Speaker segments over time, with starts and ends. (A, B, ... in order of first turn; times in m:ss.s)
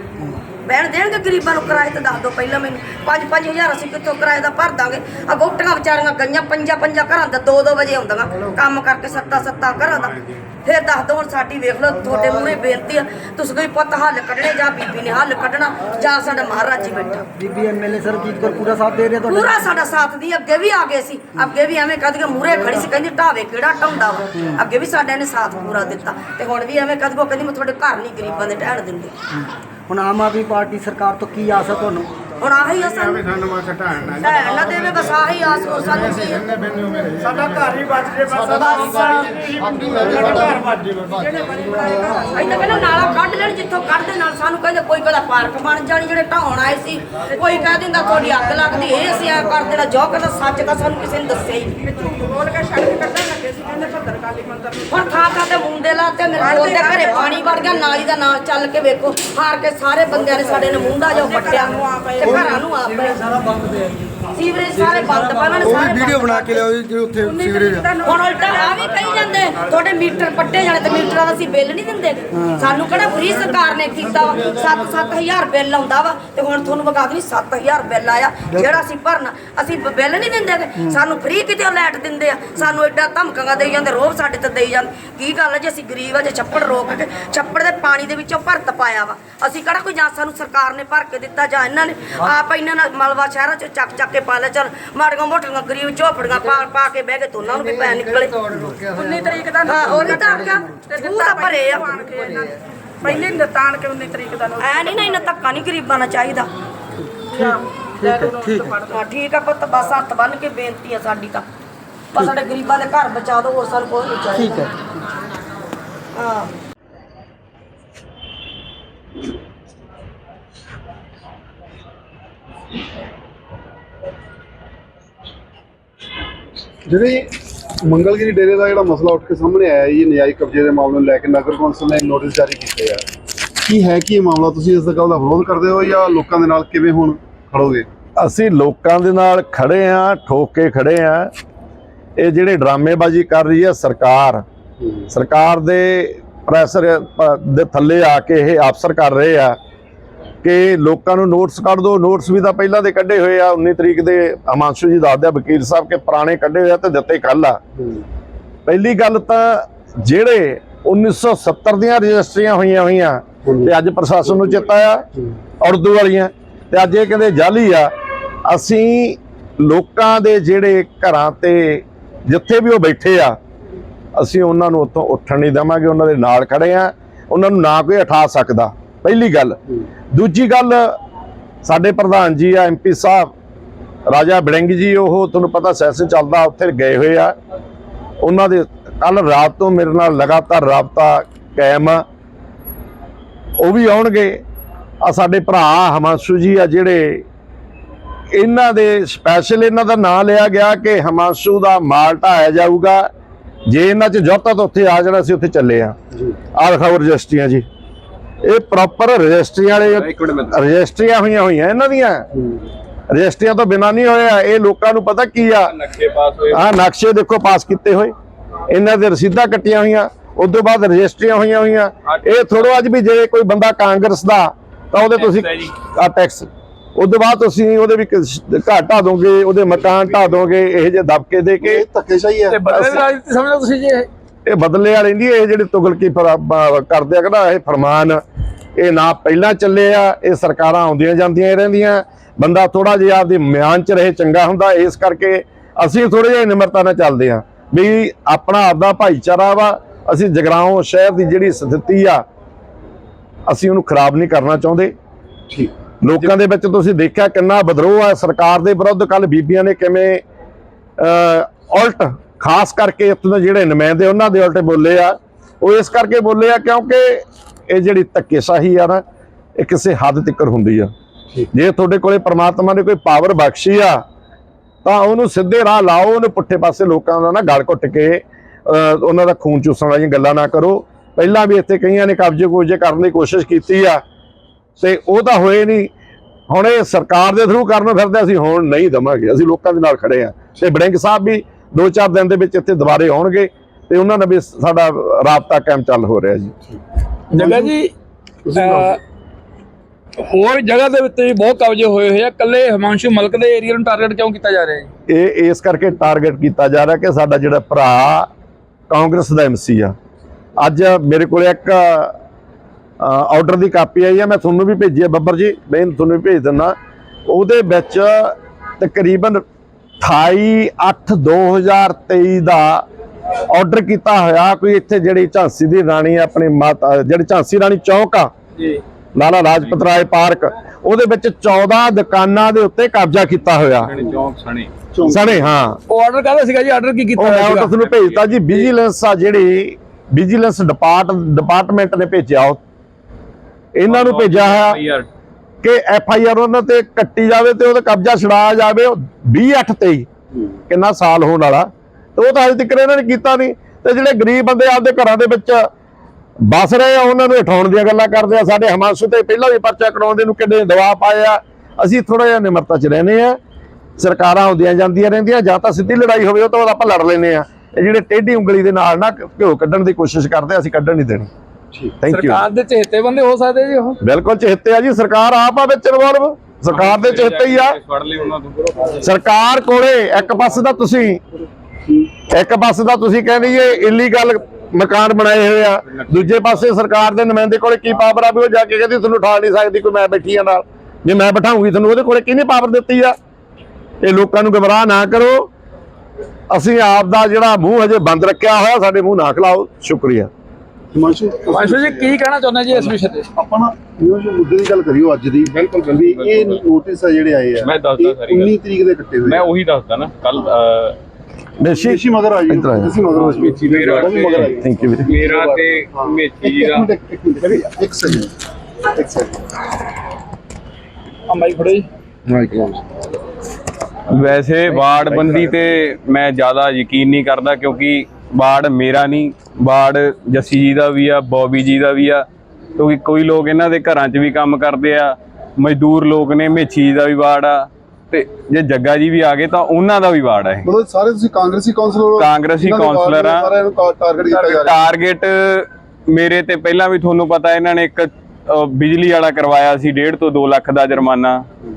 0:00.6-0:17.2 A
0:09.2-0:10.5 B
0:17.3-0:19.6 C
0:19.3-0:29.1 A
0:24.4-0:24.6 C
0:29.4-0:32.1 C
0:32.4-0:33.3 A
0:32.8-0:34.9 B
0:34.2-0:36.8 A
0:37.8-0:39.4 A
0:40.5-0:42.8 D
0:41.8-0:42.8 C
0:42.4-0:51.8 A
0:52.2-0:55.2 D
0:54.9-1:03.2 A
0:56.4-0:57.5 D
1:01.2-1:02.6 D
1:04.3-1:06.7 A
1:06.8-1:07.2 C
1:07.3-1:08.6 D
1:08.0-1:38.4 A
1:12.3-1:12.7 C
1:18.5-1:18.8 C
1:39.0-1:42.5 D
1:39.6-1:42.1 A
1:43.1-1:45.2 D
1:44.6-1:46.5 A
1:47.3-1:48.8 C
1:48.2-1:48.9 D
1:48.8-1:51.4 A
1:52.1-1:54.7 A
1:54.3-1:54.9 C
1:56.2-1:56.5 A
2:06.9-2:13.0 E
2:13.6-2:17.9 E
2:18.2-2:21.3 F
2:22.2-2:24.4 F
2:25.1-2:29.6 F
2:30.4-2:37.6 F
2:37.8-2:38.0 E
2:38.7-2:45.0 F
2:43.4-2:43.7 E
2:45.6-2:47.9 F
2:48.5-2:53.4 F
2:54.2-2:59.6 F
3:00.1-3:01.0 F
3:01.6-3:03.3 F
3:04.1-3:07.3 F
3:08.2-3:12.0 F
3:13.6-3:14.4 F
3:15.0-3:17.2 F
3:18.3-3:23.1 F
3:23.7-3:26.0 F
3:26.5-3:27.6 F
3:28.4-3:32.2 F
3:29.8-3:30.6 G
3:32.4-3:32.7 E
3:33.1-3:35.8 F
3:35.6-3:36.7 G
3:36.5-3:38.1 F
3:38.7-3:51.8 F
3:42.1-3:42.8 G
3:45.1-3:45.7 G
3:51.6-3:52.8 E
3:52.5-3:54.1 H
3:52.7-3:53.1 F
3:54.5-3:58.2 F
3:58.8-4:12.2 F
4:13.5-4:14.9 F
4:16.0-4:20.2 F
4:21.0-4:29.0 F
4:29.6-4:30.9 F
4:31.5-4:34.0 F
4:34.8-4:44.0 F
4:44.8-4:45.9 F
4:46.5-4:56.5 F
4:57.3-4:57.9 H
4:57.4-4:57.7 E
4:58.5-4:58.9 E
4:58.5-4:59.0 H
5:00.2-5:04.9 H
5:05.1-5:08.3 F
5:08.9-5:10.0 F
5:10.6-5:12.1 F
5:13.0-5:16.8 F
5:17.3-5:19.4 F
5:20.0-5:22.8 F
5:23.5-5:28.3 F
5:29.2-5:34.0 F
5:33.9-5:34.7 G
5:34.9-5:35.4 E
5:35.0-5:35.8 F
5:35.9-5:38.7 H
5:37.2-5:42.6 F
5:37.9-5:38.3 G
5:43.8-5:44.8 F
5:43.9-5:45.1 G
5:45.6-5:50.1 F
5:50.7-5:55.7 F
5:56.4-6:03.4 F
6:04.0-6:11.3 F
6:12.0-6:12.4 F
6:12.1-6:14.0 H
6:14.0-6:17.8 F
6:16.7-6:19.1 G
6:19.0-6:21.2 F
6:22.3-6:33.1 F
6:25.9-6:26.6 G
6:34.0-6:35.5 F
6:36.5-6:40.3 F
6:40.9-6:42.2 E
6:41.5-6:43.3 H
6:42.7-6:49.5 E
6:45.5-6:46.6 G
6:47.6-6:48.6 G
6:49.3-6:51.0 G
6:51.6-6:53.0 F
6:51.7-6:58.3 E
6:53.1-6:56.9 G
6:53.7-6:54.1 H
6:54.6-6:55.2 F
6:58.9-6:59.4 E
7:01.3-7:01.9 H
7:04.1-7:20.7 G
7:20.6-7:24.9 E
7:22.2-7:23.5 G
7:24.2-7:31.5 G